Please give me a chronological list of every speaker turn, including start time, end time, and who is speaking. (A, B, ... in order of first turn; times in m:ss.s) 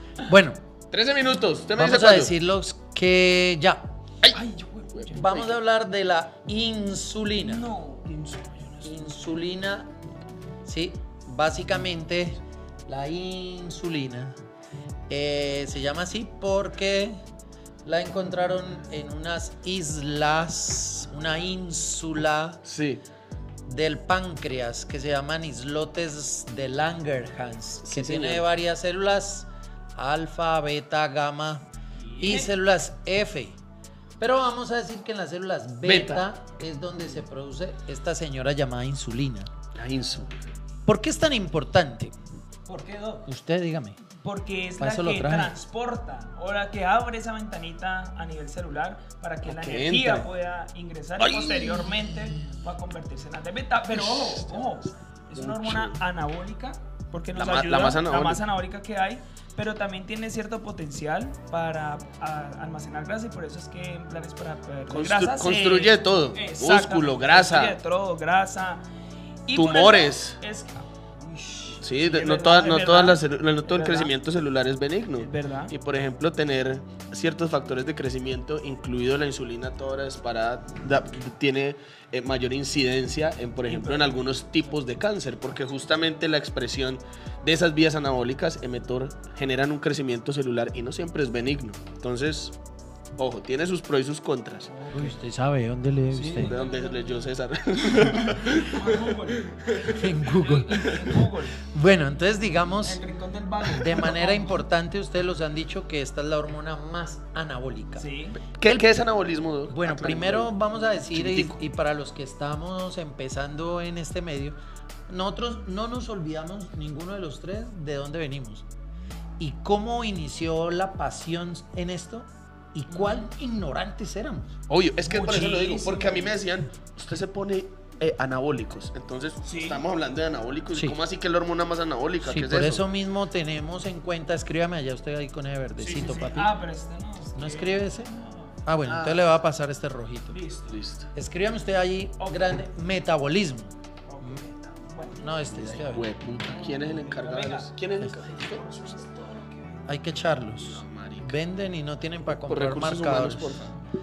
0:00.2-0:00.6 A
0:00.9-0:02.3 B
0:01.8-0:03.9 A
0:04.3-0:05.3 C
0:04.9-0:05.6 B
0:05.1-0:07.6 A
0:07.4-0:09.4 C
0:08.8-0:09.9 A
0:10.6-0:14.4 A
0:15.1-0:17.1 A
0:17.8-0:22.6 A
0:22.6-0:23.0 B
0:23.7-0:31.6 A
0:27.8-0:28.4 B
0:32.0-0:32.5 C
0:32.2-0:33.6 A
0:34.2-0:39.5 A
0:35.8-0:36.2 B
0:39.7-0:40.4 B
0:40.8-0:42.1 A
0:42.7-0:43.3 C
0:43.3-0:44.0 A
0:44.2-1:08.8 C
0:44.8-0:45.5 A
0:49.4-0:50.3 B
0:51.2-0:52.1 B
0:53.9-0:54.6 B
0:55.3-0:56.0 B
0:57.3-0:58.4 B
1:04.9-1:07.8 B
1:09.4-1:14.1 C
1:09.5-1:10.4 B
1:11.8-1:32.5 B
1:15.2-1:15.7 C
1:23.6-1:24.7 C
1:33.2-1:34.7 B
1:34.6-1:35.2 C
1:34.9-1:36.6 A
1:36.1-1:37.3 C
1:36.3-1:40.1 B
1:38.0-1:39.6 C
1:39.8-1:41.0 A
1:40.3-1:41.6 C
1:41.7-1:43.0 A
1:42.8-1:44.6 C
1:43.7-1:48.1 A
1:48.0-1:48.4 C
1:48.6-1:50.5 B
1:49.7-1:54.6 A
1:51.1-1:51.6 B
1:55.1-1:58.6 A
1:59.4-2:04.6 A
2:02.9-2:03.3 C
2:04.7-2:12.8 B
2:05.0-2:06.3 C
2:09.4-2:09.8 C
2:12.2-2:16.6 A
2:15.8-2:16.3 B
2:15.9-2:18.5 C
2:17.4-2:18.1 A
2:18.6-2:20.4 A
2:18.8-2:19.2 B
2:20.3-2:20.8 C
2:20.7-2:21.1 B
2:21.1-2:24.4 A
2:22.2-2:22.6 C
2:24.1-2:25.2 C
2:25.2-2:26.1 A
2:25.5-2:28.7 B
2:26.4-2:29.8 C
2:29.9-2:33.7 A
2:30.6-2:31.4 B
2:32.5-2:33.7 B